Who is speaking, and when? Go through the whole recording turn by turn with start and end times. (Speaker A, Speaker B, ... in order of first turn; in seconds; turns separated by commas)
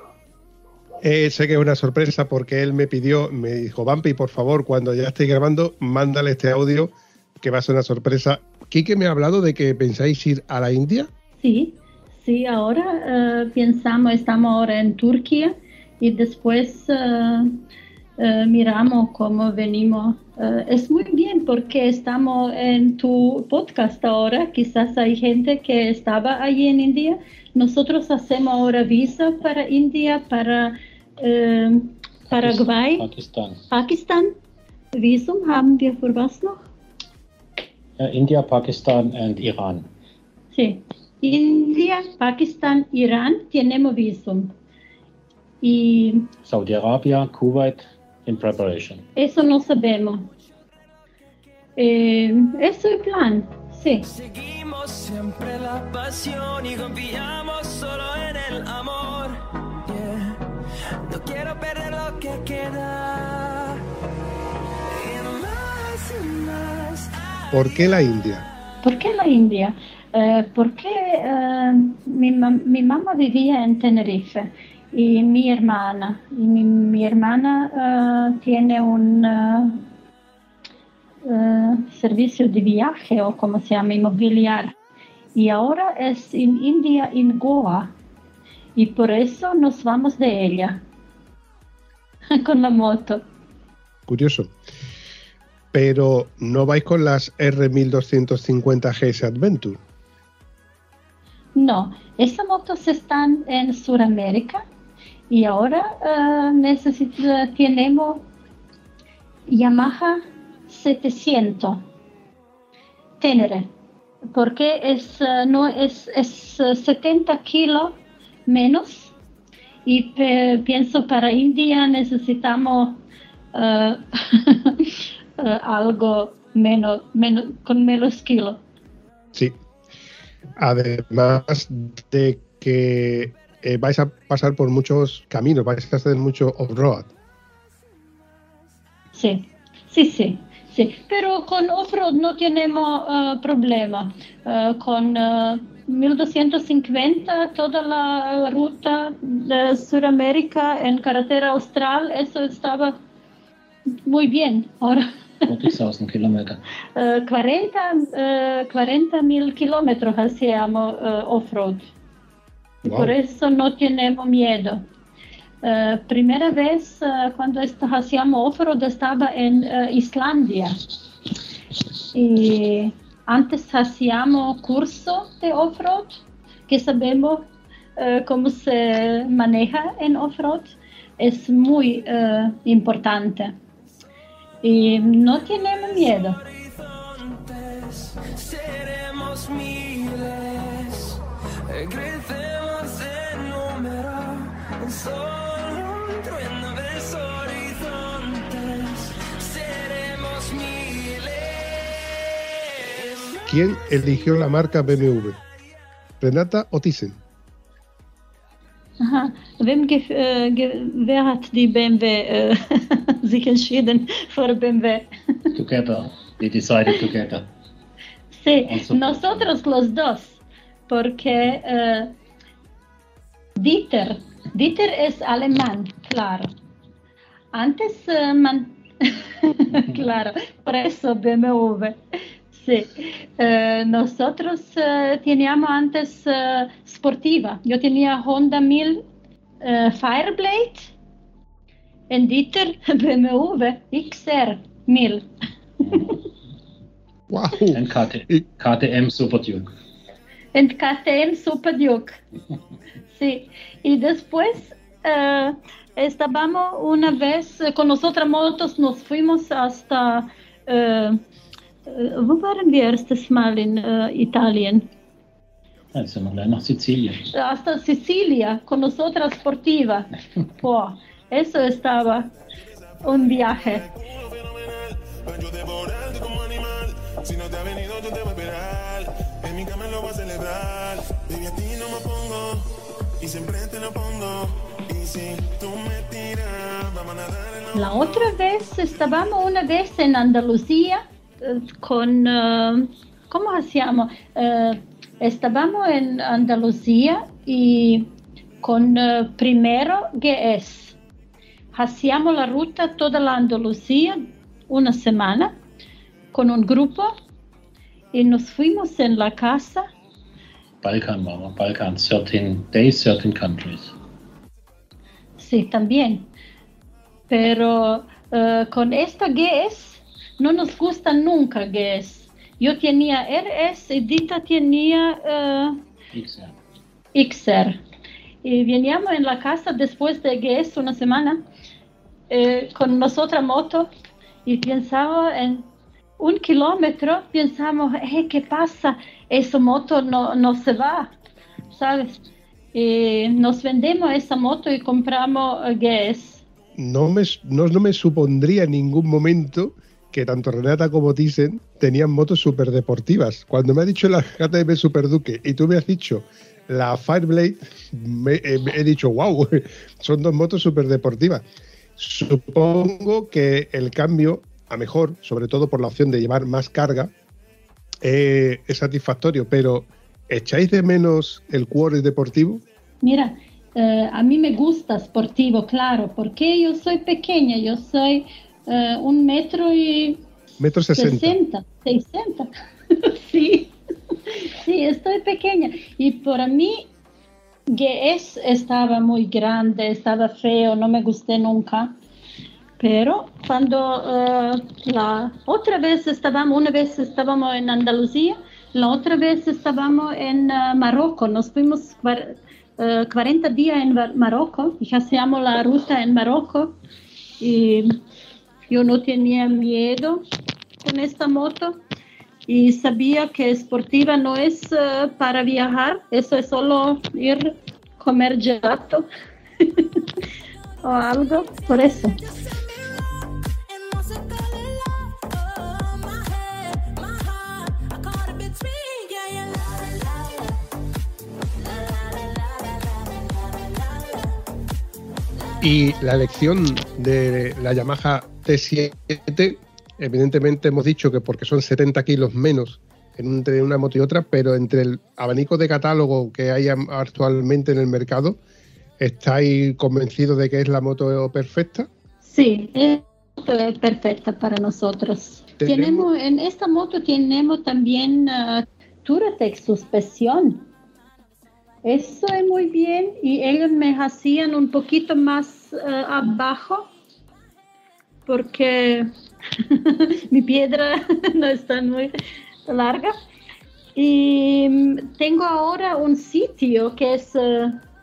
Speaker A: 1.0-11.1, Speaker B: 11.4-17.6, Speaker B: 18.2-33.1, Speaker C: 32.3-33.6, Speaker B: 33.7-34.3, Speaker B: 35.0-36.6, Speaker C: 38.0-39.9, Speaker B: 40.5-44.5, Speaker B: 45.6-46.3, Speaker C: 46.4-49.0, Speaker B: 49.1-50.3, Speaker B: 51.8-54.0, Speaker D: 54.0-60.4, Speaker D: 61.0-63.8, Speaker D: 64.9-68.4, Speaker A: 67.5-68.4, Speaker B: 68.8-79.8, Speaker B: 81.2-84.7, Speaker B: 85.3-87.9, Speaker B: 88.8-90.8, Speaker B: 92.3-93.2, Speaker A: 94.1-94.5, Speaker A: 95.7-99.8, Speaker B: 101.5-104.7, Speaker B: 105.3-108.3, Speaker B: 109.5-111.8, Speaker B: 113.2-113.7, Speaker B: 114.3-118.0, Speaker B: 118.5-119.1, Speaker B: 119.8-123.0, Speaker B: 123.5-128.6, Speaker A: 130.6-137.1, Speaker B: 139.1-152.9, Speaker B: 154.1-155.1, Speaker C: 155.4-156.6, Speaker B: 156.9-161.9, Speaker A: 162.8-163.1, Speaker B: 162.8-164.8, Speaker B: 165.6-170.8, Speaker B: 172.1-183.6, Speaker B: 184.6-186.4, Speaker D: 186.0-201.8, Speaker D: 202.8-204.8, Speaker A: 203.5-205.4, Speaker A: 206.2-207.2, Speaker B: 209.0-215.1, Speaker C: 215.5-217.5, Speaker B: 218.3-222.1, Speaker C: 218.7-219.5, Speaker B: 223.6-226.5, Speaker B: 227.5-232.0, Speaker B: 232.5-239.0, Speaker B: 239.6-240.9, Speaker B: 242.1-245.3, Speaker C: 245.8-246.2, Speaker A: 247.3-248.4, Speaker C: 247.7-249.7, Speaker B: 250.5-252.2, Speaker B: 253.1-261.2, Speaker B: 261.9-264.9, Speaker C: 265.9-267.3, Speaker B: 267.3-270.1, Speaker B: 270.6-272.3, Speaker E: 273.0-282.7, Speaker B: 273.0-273.8, Speaker E: 283.2-288.2, Speaker B: 287.7-298.1, Speaker B: 298.6-301.0, Speaker B: 301.7-305.5, Speaker B: 306.3-307.1, Speaker B: 308.1-309.9, Speaker C: 310.8-313.9, Speaker B: 315.4-316.3, Speaker B: 317.3-325.8, Speaker C: 326.1-326.6, Speaker B: 327.1-327.8, Speaker B: 328.4-331.4, Speaker B: 332.3-333.9, Speaker B: 334.4-335.7, Speaker B: 336.2-341.1, Speaker B: 341.7-342.2, Speaker B: 342.7-346.4, Speaker A: 346.8-361.4, Speaker A: 362.0-367.1, Speaker A: 368.0-372.6, Speaker B: 373.0-380.2, Speaker A: 380.6-381.4, Speaker B: 380.9-383.7, Speaker B: 384.3-386.9, Speaker B: 387.7-391.9, Speaker B: 392.8-406.7, Speaker B: 407.4-407.9, Speaker B: 408.7-410.2, Speaker B: 410.8-411.8, Speaker B: 412.5-419.1, Speaker B: 419.6-420.0, Speaker B: 420.8-422.2, Speaker D: 423.7-429.5, Speaker A: 435.6-448.4, Speaker A: 449.0-451.9, Speaker B: 452.2-460.7, Speaker A: 455.6-456.1, Speaker B: 461.8-466.9, Speaker B: 468.3-469.1, Speaker B: 469.6-472.1, Speaker B: 472.7-473.1, Speaker B: 473.9-477.8